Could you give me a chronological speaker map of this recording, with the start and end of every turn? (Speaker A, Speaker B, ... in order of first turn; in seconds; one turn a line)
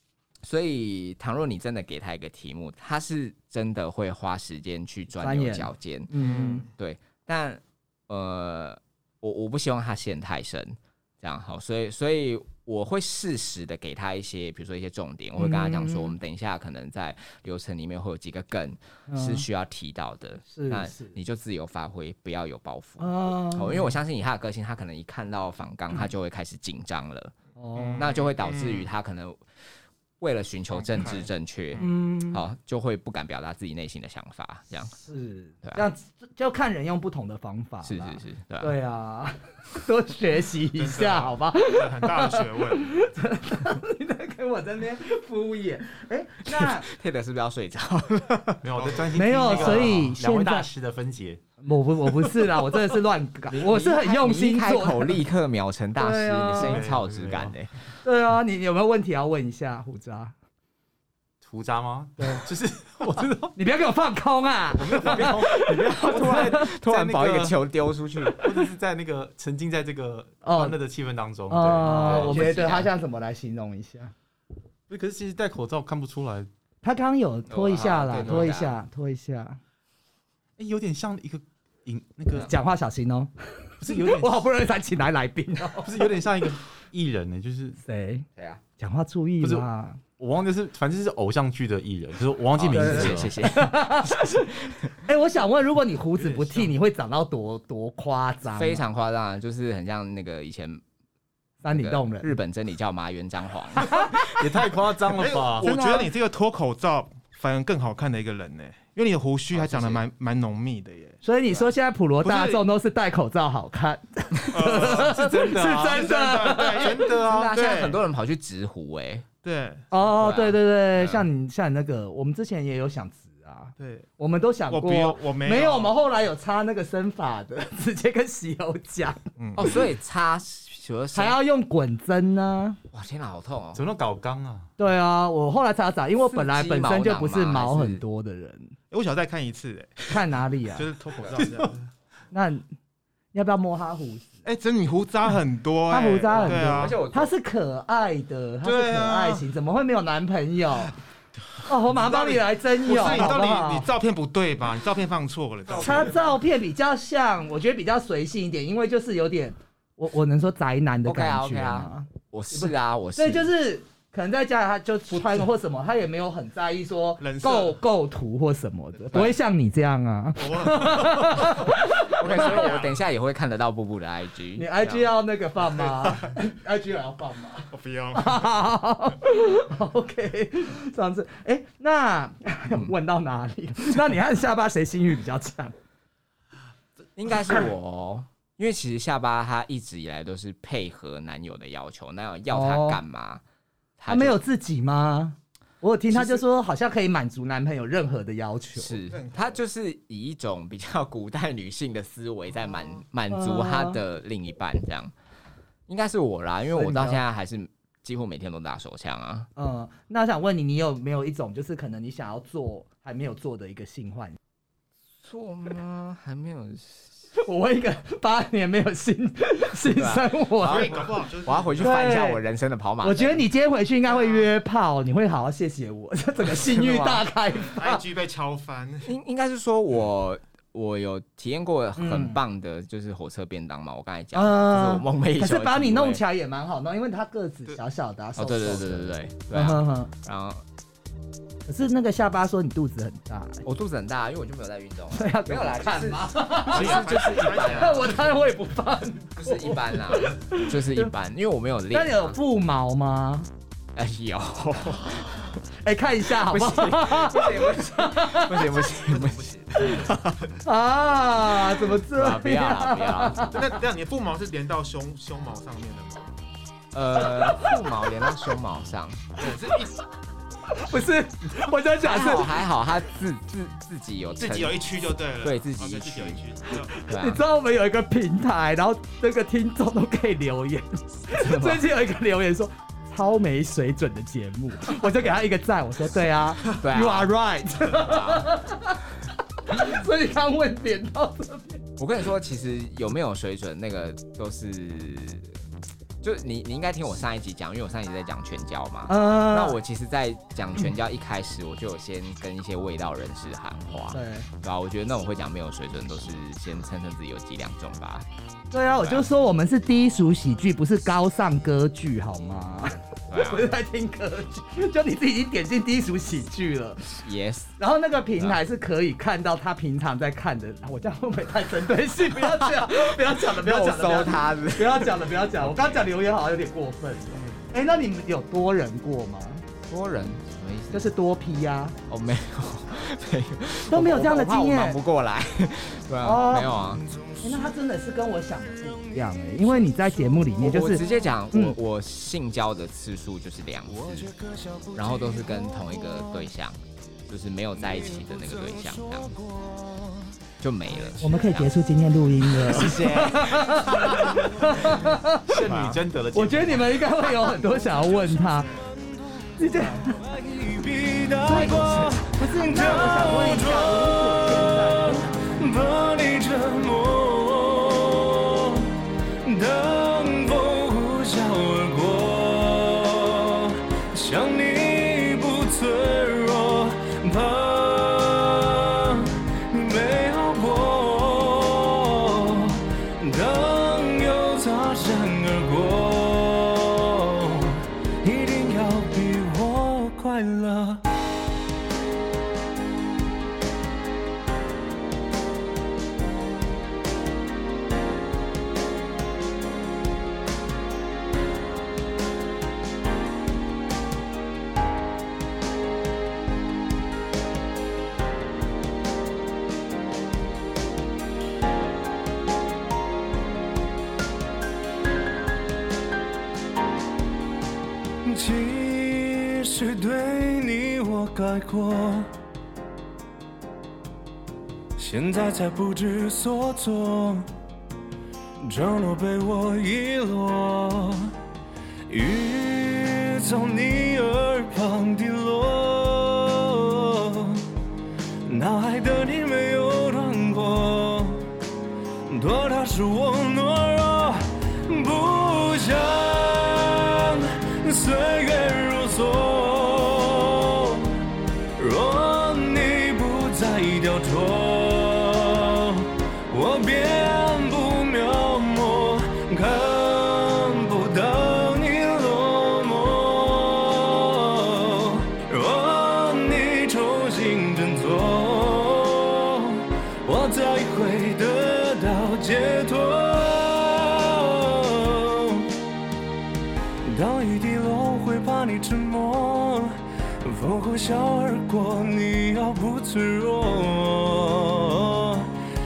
Speaker A: 0.4-6.1
Speaker B: 5.2-6.7
Speaker C: 6.2-6.7
Speaker A: 6.7-27.3
Speaker B: 15.4-16.1
Speaker B: 19.1-19.4
Speaker B: 20.5-21.2
Speaker B: 23.0-23.9
Speaker B: 27.6-28.1
Speaker C: 27.8-28.9
Speaker A: 28.0-29.4
Speaker A: 30.2-34.9
Speaker C: 30.7-31.8
Speaker B: 31.8-32.4
Speaker B: 34.9-46.9
Speaker A: 37.8-38.7
Speaker C: 40.7-43.0
Speaker A: 46.5-48.6
Speaker D: 48.6-51.4
Speaker C: 48.7-50.0
Speaker B: 49.1-50.7
Speaker B: 51.6-55.2
Speaker D: 52.1-52.5
Speaker A: 53.5-57.7
Speaker B: 56.0-56.8
Speaker D: 56.6-57.5
Speaker B: 58.0-60.3
Speaker D: 61.4-63.5
Speaker B: 62.2-62.5
Speaker B: 63.0-66.7
Speaker D: 64.8-67.6
Speaker A: 65.1-68.5
Speaker D: 68.4-72.5
Speaker B: 70.4-70.8
Speaker B: 71.5-74.1
Speaker A: 71.8-72.9
Speaker D: 74.9-76.5
Speaker B: 76.8-79.6
Speaker A: 77.5-78.8
Speaker D: 80.6-82.5
Speaker B: 82.3-86.1
Speaker D: 83.8-84.5
Speaker D: 85.8-87.8
Speaker B: 87.8-88.3
Speaker A: 88.4-88.6
Speaker B: 88.8-90.0
Speaker D: 90.2-93.3
Speaker A: 92.6-94.9
Speaker B: 92.7-94.5
Speaker B: 95.0-98.8
Speaker D: 96.2-96.7
Speaker A: 98.5-100.8
Speaker B: 101.6-102.3
Speaker A: 101.7-104.4
Speaker B: 103.8-104.2
Speaker D: 104.2-105.7
Speaker C: 105.1-111.2
Speaker B: 105.6-106.1
Speaker A: 109.5-110.0
Speaker B: 111.2-117.5
Speaker C: 112.2-112.7
Speaker C: 114.5-118.0
Speaker D: 114.7-116.2
Speaker D: 116.8-117.5
Speaker A: 117.2-119.3
Speaker C: 119.4-119.9
Speaker B: 119.9-129.2
Speaker A: 120.0-120.6
Speaker C: 121.0-121.3
Speaker C: 123.8-124.1
Speaker C: 124.7-126.0
Speaker C: 129.4-129.7
Speaker A: 129.6-131.4
Speaker B: 131.1-132.8
Speaker A: 132.9-133.8
Speaker D: 133.8-134.7
Speaker B: 134.8-138.8
Speaker A: 136.2-138.0
Speaker C: 138.9-140.2
Speaker B: 140.1-140.9
Speaker C: 140.7-141.9
Speaker D: 141.4-141.7
Speaker B: 142.3-142.7
Speaker B: 143.3-144.4
Speaker C: 144.4-147.0
Speaker B: 145.9-151.0
Speaker A: 146.3-147.3
Speaker C: 148.6-149.5
Speaker C: 151.5-156.3
Speaker B: 151.7-153.9
Speaker B: 155.8-172.8
Speaker A: 161.1-163.5
Speaker C: 167.2-167.8
Speaker C: 170.4-172.9
Speaker A: 172.0-175.0
Speaker B: 174.6-185.8
Speaker C: 175.8-176.4
Speaker C: 177.7-178.5
Speaker A: 187.2-193.4
Speaker B: 192.5-193.0
Speaker A: 194.0-194.4
Speaker B: 194.1-199.0
Speaker A: 196.1-196.4
Speaker A: 198.8-205.1
Speaker C: 199.1-199.6
Speaker B: 203.3-204.0
Speaker A: 205.9-209.5
Speaker B: 206.7-207.2
Speaker B: 209.6-214.4
Speaker A: 215.2-217.2
Speaker B: 217.3-221.1
Speaker A: 219.9-223.5
Speaker C: 220.6-222.2
Speaker B: 221.8-222.4
Speaker B: 223.0-228.0
Speaker C: 224.1-224.5
Speaker A: 226.7-227.2
Speaker C: 227.6-229.1
Speaker A: 229.1-236.2
Speaker B: 232.0-232.4
Speaker B: 234.3-240.1
Speaker A: 238.4-240.6
Speaker B: 241.7-243.7
Speaker A: 243.7-248.1
Speaker B: 245.1-251.1
Speaker C: 246.6-248.2
Speaker A: 249.4-252.4
Speaker B: 251.9-253.5
Speaker A: 253.9-255.6
Speaker B: 255.7-258.8
Speaker A: 256.4-260.6
Speaker C: 259.2-259.5
Speaker B: 260.6-263.8
Speaker A: 262.1-263.5
Speaker C: 263.5-266.4
Speaker A: 266.9-269.3
Speaker C: 269.4-269.9
Speaker B: 270.7-272.6
Speaker A: 272.0-274.8
Speaker C: 274.4-276.9
Speaker A: 275.4-277.4
Speaker B: 277.1-289.0
Speaker A: 281.3-281.9
Speaker A: 286.7-288.5
Speaker B: 289.7-291.8
Speaker A: 292.0-295.5
Speaker A: 296.2-308.3
Speaker B: 299.1-299.8
Speaker B: 304.1-304.5
Speaker B: 308.7-317.2
Speaker A: 313.3-313.7
Speaker A: 317.2-317.7
Speaker B: 317.8-329.6
Speaker A: 322.4-326.1
Speaker A: 329.9-331.1
Speaker B: 330.9-332.0
Speaker A: 332.1-337.0
Speaker B: 333.9-335.0
Speaker B: 336.2-336.8
Speaker E: 336.9-337.7
Speaker B: 337.4-341.8
Speaker E: 338.7-341.2
Speaker A: 340.6-344.4
Speaker E: 343.9-346.5
Speaker A: 344.9-349.4
Speaker E: 347.8-350.4
Speaker A: 350.6-351.7
Speaker B: 351.2-355.6
Speaker D: 352.6-354.4
Speaker D: 355.5-357.0
Speaker A: 355.6-356.0
Speaker B: 356.3-358.7
Speaker E: 357.4-391.0
Speaker B: 359.6-360.2
Speaker B: 361.5-365.7
Speaker A: 361.6-362.1
Speaker E: 418.2-422.3
Speaker E: 425.0-427.5
Speaker E: 428.6-431.4
Speaker E: 432.1-437.7
Speaker E: 438.4-441.5
Speaker E: 442.3-451.2
Speaker E: 451.8-475.8
Speaker E: 477.1-485.5